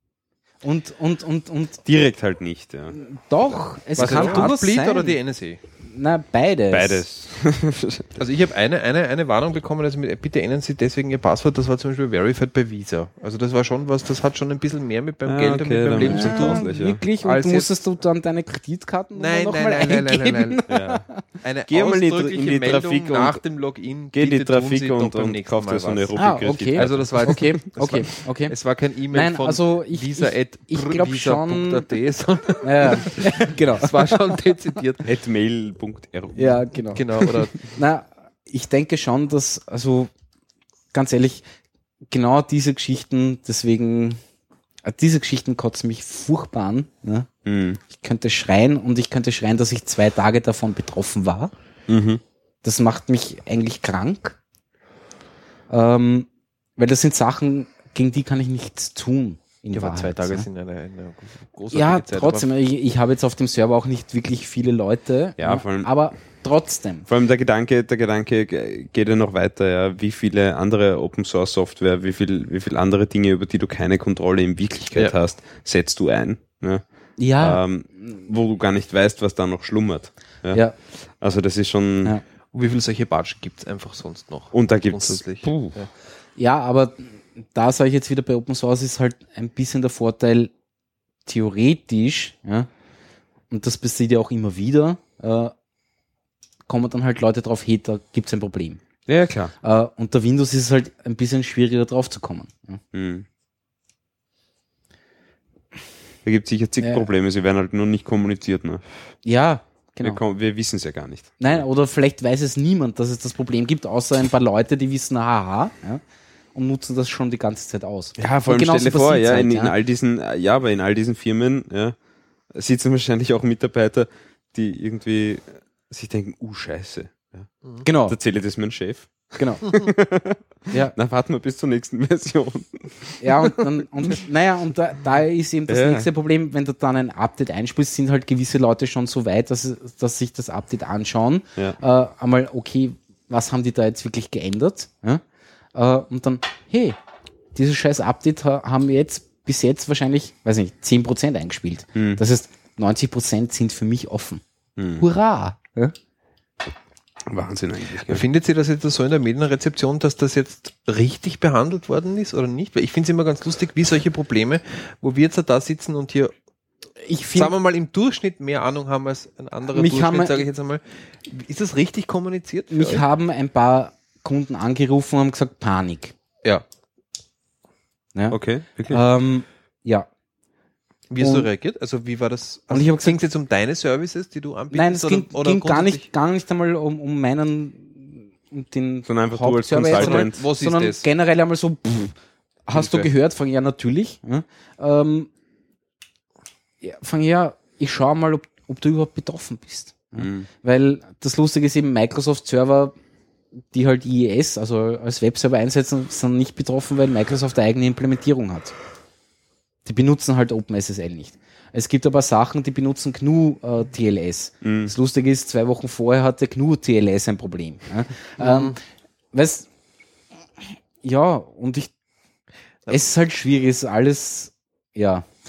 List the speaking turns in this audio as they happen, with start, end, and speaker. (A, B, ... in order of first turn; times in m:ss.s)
0:00.6-0:01.8 A
0:01.8-0:03.0 B
0:02.9-0:05.2 A
0:04.0-0:04.5 B
0:04.0-0:05.6 C
0:05.8-0:07.0 A
0:06.7-0:08.2 B
0:08.2-0:16.7 C
0:15.2-0:17.0 B
0:16.0-0:21.2 A
0:17.2-0:17.7 C
0:19.2-0:20.6 C
0:20.7-0:21.0 B
0:21.4-0:35.1 C
0:21.7-0:23.4 B
0:24.1-0:27.5 B
0:26.2-0:28.6 A
0:29.1-0:31.9 A
0:32.6-0:34.4 A
0:35.0-0:36.6 B
0:36.4-0:40.1 A
0:36.9-0:37.6 C
0:40.9-0:41.4 A
0:42.1-0:44.2 A
0:44.8-0:47.3 A
0:47.4-0:47.8 B
0:47.9-0:51.5 A
0:51.9-0:52.2 B
0:52.6-0:54.4 A
0:55.7-1:00.5 A
0:59.7-1:02.5 C
1:01.7-1:07.1 A
1:05.4-1:05.9 B
1:07.1-1:16.8 B
1:17.2-1:17.6 A
1:17.4-1:22.2 B
1:22.5-1:25.9 C
1:24.5-1:25.8 B
1:26.4-1:30.5 A
1:31.3-1:32.7 A
1:33.5-1:35.5 A
1:36.7-1:38.8 A
1:39.1-1:39.5 B
1:39.6-1:42.8 A
1:42.9-1:43.3 B
1:46.2-1:48.8 B
1:46.8-1:47.1 A
1:49.2-1:50.2 A
1:50.0-1:51.6 B
1:51.4-1:56.0 A
1:56.6-1:59.8 A
1:58.2-2:02.0 B
2:02.5-2:07.5 B
2:07.8-2:08.2 A
2:08.1-2:13.5 B
2:09.4-2:09.6 A
2:13.2-2:25.2 A
2:15.7-2:16.1 B
2:25.8-2:27.0 A
2:27.6-2:34.4 A
2:32.0-2:32.2 B
2:34.8-2:35.0 B
2:35.0-2:35.9 A
2:37.3-2:38.2 B
2:38.1-2:46.3 C
2:47.0-2:47.5 A
2:47.4-2:53.0 C
2:49.7-2:50.4 A
2:52.7-2:56.2 A
2:58.2-3:00.1 A
2:58.3-2:59.0 B
3:01.1-3:06.1 C
3:01.2-3:01.5 A
3:02.7-3:03.2 A
3:04.7-3:12.2 A
3:09.1-3:10.4 B
3:09.9-3:11.1 C
3:12.7-3:15.3 A
3:12.8-3:13.1 B
3:16.8-3:23.0 A
3:20.2-3:20.5 B
3:23.7-3:28.7 A
3:29.8-3:38.8 A
3:34.6-3:34.9 B
3:38.4-3:38.8 C
3:39.3-3:39.7 A
3:41.0-3:41.9 A
3:42.9-3:45.3 A